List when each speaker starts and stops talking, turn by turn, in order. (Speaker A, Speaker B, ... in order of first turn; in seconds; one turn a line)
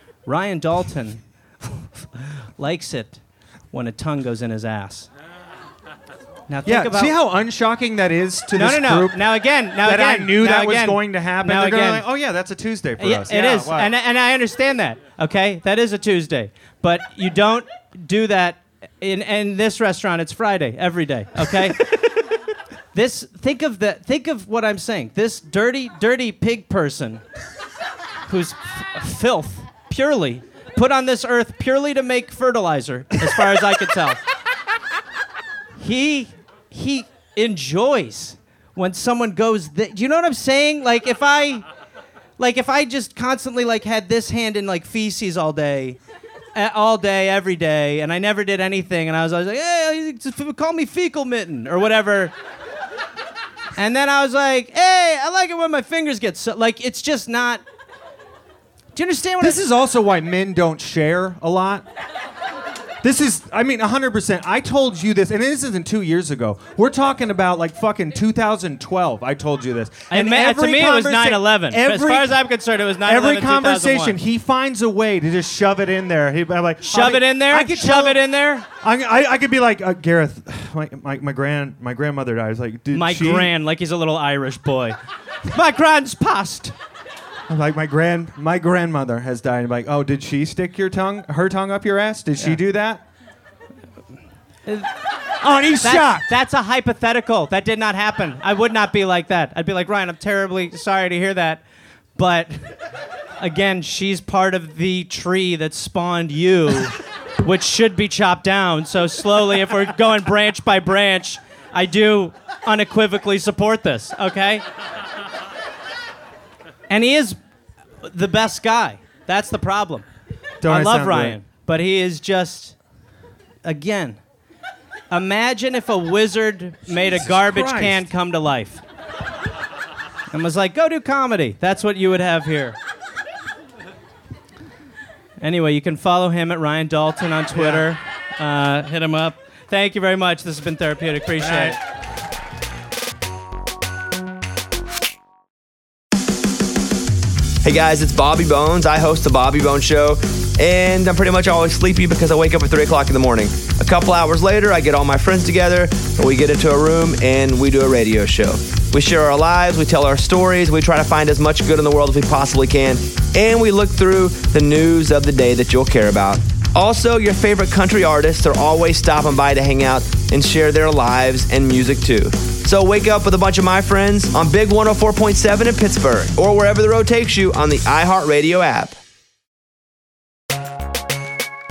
Speaker A: 0.2-5.1
Speaker A: 6.5-7.2
Speaker B: 6.6-13.9
Speaker A: 8.5-12.1
Speaker A: 13.0-21.9
Speaker A: 22.9-27.2
Speaker A: 28.3-34.2
Speaker A: 35.8-41.6
Speaker A: 42.4-46.0
Speaker A: 46.5-52.3
Speaker A: 53.8-57.6
Speaker A: 58.9-59.6
Speaker B: 59.4-61.9
Speaker B: 63.0-72.4
Speaker A: 70.1-74.2
Speaker B: 73.0-78.2
Speaker A: 76.8-78.7
Speaker B: 78.8-83.5
Speaker A: 82.9-86.7
Speaker B: 87.5-93.0
Speaker B: 95.4-96.3
Speaker A: 95.8-101.6
Speaker A: 102.1-102.7
Speaker A: 103.4-114.6
Speaker A: 116.9-117.4
Speaker A: 118.0-120.0
Speaker B: 120.6-121.4
Speaker A: 120.7-122.8
Speaker A: 123.6-124.2
Speaker A: 125.1-128.8
Speaker B: 126.9-128.1
Speaker A: 130.3-132.8
Speaker A: 135.4-141.8
Speaker B: 137.5-137.9
Speaker B: 141.4-141.8
Speaker C: 147.6-179.0